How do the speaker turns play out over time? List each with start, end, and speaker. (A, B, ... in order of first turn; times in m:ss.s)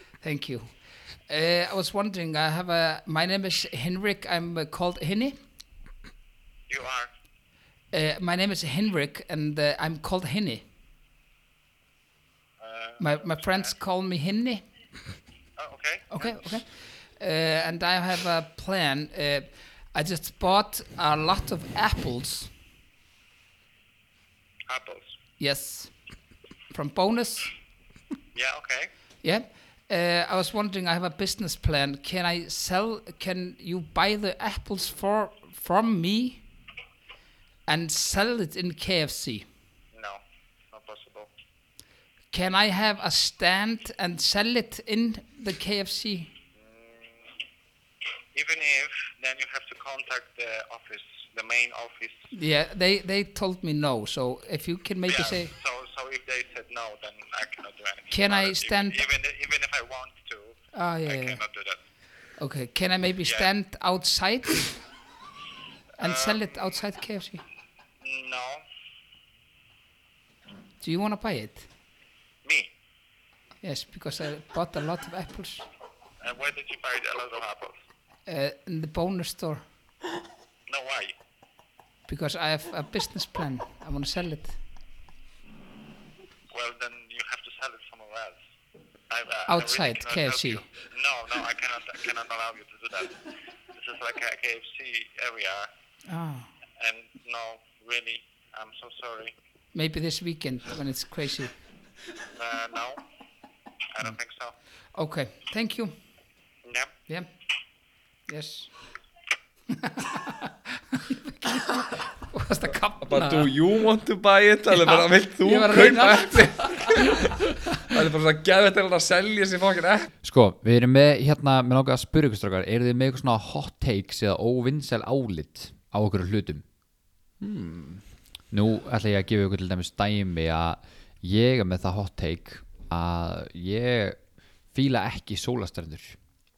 0:00.2-0:00.7 A
0:01.3-0:05.4 A
0:06.7-0:07.1 B
0:07.9-0:10.6 A
0:12.6-0:13.7 B
0:13.0-0:14.6 A
0:15.6-0:16.4 B
0:16.1-0:22.5 A
0:24.7-0:25.1 B
0:25.4-0:25.9 A
0:26.7-0:27.5 A
0:28.3-0:28.9 B
0:29.2-0:36.4 A
0:37.7-0:39.4 A
0:39.9-0:41.3 B
0:42.3-0:46.3 A
0:46.6-0:47.3 B
0:48.3-0:52.3 B
0:52.3-0:55.5 A
0:55.1-1:01.8 B
0:58.1-0:59.0 A
1:00.7-1:01.4 A
1:02.4-1:04.8 A
1:03.2-1:03.5 B
1:06.0-1:07.4 A
1:06.0-1:06.4 B
1:08.0-1:08.6 B
1:10.8-1:11.6 A
1:12.4-1:12.7 B
1:13.6-1:15.7 A
1:16.2-1:17.8 B
1:18.3-1:19.6 A
1:20.7-1:21.1 B
1:22.1-1:24.6 A
1:26.5-1:28.4 B
1:29.1-1:35.7 B
1:29.5-1:30.6 A
1:36.1-1:36.5 A
1:36.8-1:39.3 B
1:39.7-1:41.5 A
1:42.3-1:43.0 B
1:43.9-1:44.5 B
1:44.9-1:45.9 A
1:46.6-1:46.9 B
1:48.3-1:48.7 A
1:49.7-1:53.5 A
1:53.0-2:00.1 C
1:54.7-1:57.1 A
2:00.2-2:06.6 D
2:07.4-2:08.0 C
2:08.5-2:14.2 D
2:14.7-2:16.2 D